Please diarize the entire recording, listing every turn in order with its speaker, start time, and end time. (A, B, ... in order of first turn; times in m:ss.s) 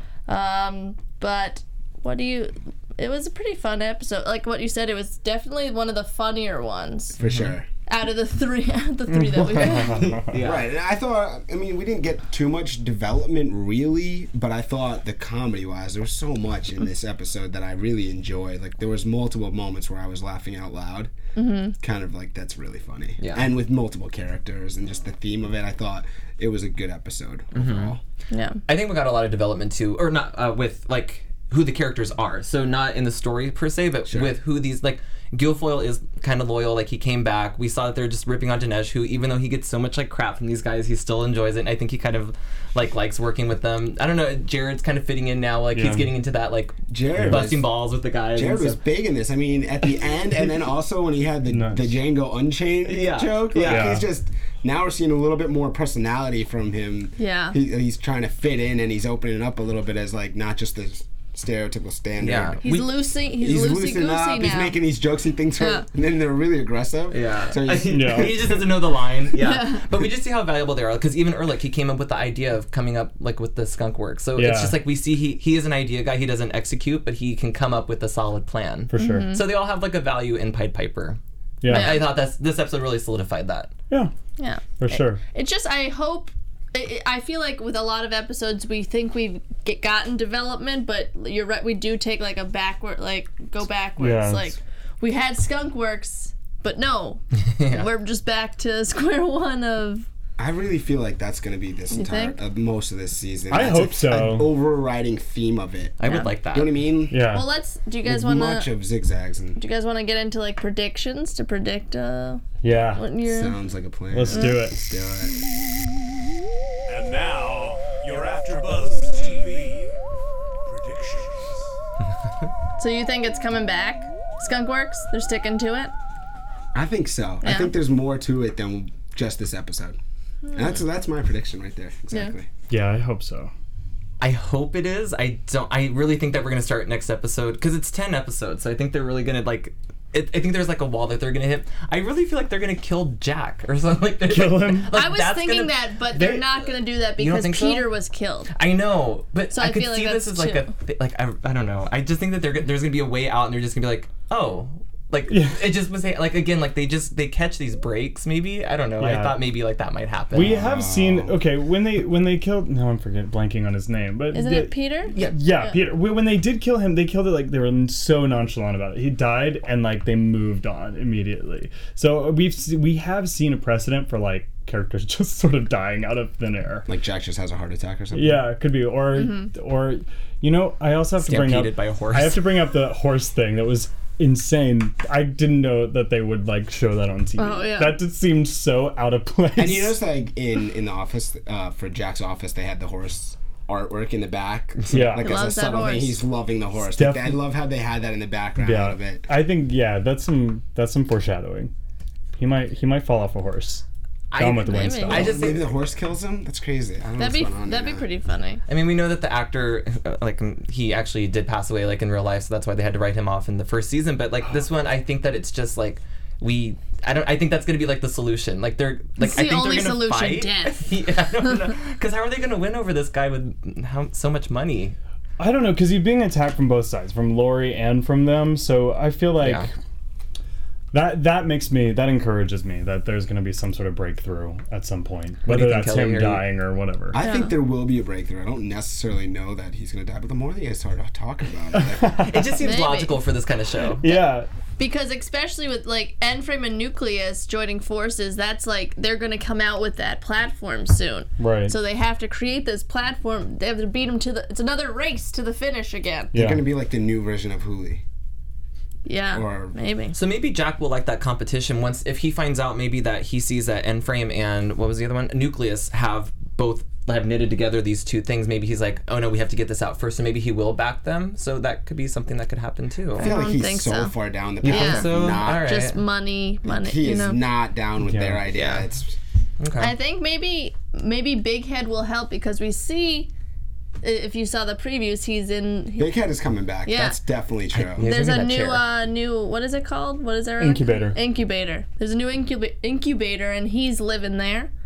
0:00.3-0:07.2 A
0:07.2-0:07.7 B
0:07.2-0:07.5 C
0:07.9-0:10.2 A
0:09.1-0:10.3 D
0:09.7-0:10.6 C
0:10.3-0:21.1 B
0:21.4-0:21.7 A
0:21.8-0:28.0 B
0:23.2-0:23.5 C
0:27.5-0:27.9 C
0:28.3-0:28.6 A
0:28.7-0:48.8 C
0:34.1-0:34.3 B
0:45.7-0:46.1 D
0:46.9-0:47.7 B
0:47.2-0:47.5 D
0:48.3-1:02.6 B
0:51.5-0:51.8 D
0:52.8-0:54.0 C
0:53.6-0:54.0 D
0:57.2-0:57.6 A
1:02.2-1:02.9 C
1:02.6-1:04.8 A
1:03.4-1:08.6 B
1:05.6-1:05.8 A
1:07.1-1:23.7 C
1:07.9-1:08.4 D
1:09.4-1:09.9 A
1:14.4-1:14.8 D
1:18.9-1:19.4 D
1:19.0-1:19.5 A
1:21.6-1:22.1 D
1:21.7-1:22.1 A
1:24.4-1:40.1 A
1:24.8-1:25.2 D
1:34.0-1:34.5 D
1:37.6-1:37.9 C
1:40.4-1:47.4 B
1:41.9-1:42.4 A
1:43.5-1:44.5 D
1:46.0-1:46.7 C
1:46.0-1:46.3 A
1:47.1-1:47.5 D
1:47.2-1:48.7 A
1:48.0-1:49.6 B
1:49.6-1:53.6 A
1:52.6-1:53.0 D
1:53.2-1:55.4 B
1:54.1-1:54.8 D
1:54.3-1:54.6 A
1:56.9-1:59.9 E
2:00.6-2:01.6 E
2:02.8-2:05.9 A
2:06.7-2:10.0 B
2:07.4-2:07.7 A
2:10.5-2:12.5 B
2:12.7-2:13.5 D
2:14.2-2:25.9 C
2:24.3-2:24.9 D
2:24.9-2:28.5 A
2:26.1-2:26.4 D
2:27.2-2:27.9 C
2:28.5-2:40.6 C
2:29.5-2:30.7 A
2:35.3-2:35.8 D
2:39.0-2:39.4 D
2:40.3-2:56.9 D
2:40.3-2:41.4 B
2:44.3-2:45.7 A
2:56.9-2:58.5 B
2:58.1-3:10.0 D
2:59.1-2:59.5 A
3:01.2-3:02.5 C
3:07.4-3:08.0 A
3:09.5-3:19.3 B
3:14.9-3:15.3 D
3:15.2-3:16.2 A
3:16.9-3:17.4 D
3:18.6-3:21.7 D
3:22.4-3:23.8 D
3:24.3-3:25.7 C
3:24.3-3:25.4 D
3:24.6-3:25.3 A
3:25.1-3:28.0 B
3:27.2-3:28.6 A
3:28.7-3:45.0 C
3:39.2-3:41.5 A
3:45.4-3:49.7 D
3:49.4-3:49.7 C
3:50.9-3:57.2 D
3:55.4-3:56.4 C
3:57.1-4:02.3 B
3:57.2-3:57.5 A
4:01.7-4:02.5 D
4:02.2-4:04.0 C
4:02.6-4:03.2 A
4:04.0-4:04.5 D
4:04.8-4:16.3 A
4:11.4-4:11.7 D
4:16.3-4:18.0 B
4:16.3-4:16.6 D
4:19.0-4:20.2 A
4:19.3-4:19.7 B
4:20.1-4:33.3 C
4:33.2-4:34.1 A
4:33.2-4:35.7 B
4:34.6-4:36.0 C
4:34.6-4:37.4 A
4:36.6-4:39.2 B
4:38.0-4:38.4 D
4:38.5-4:38.8 C
4:39.6-4:39.9 C
4:39.8-4:43.3 A
4:44.0-4:46.2 A
4:46.0-4:48.1 B
4:46.8-4:47.2 A
4:47.7-4:48.8 C
4:48.0-4:54.7 A
4:50.6-4:51.2 D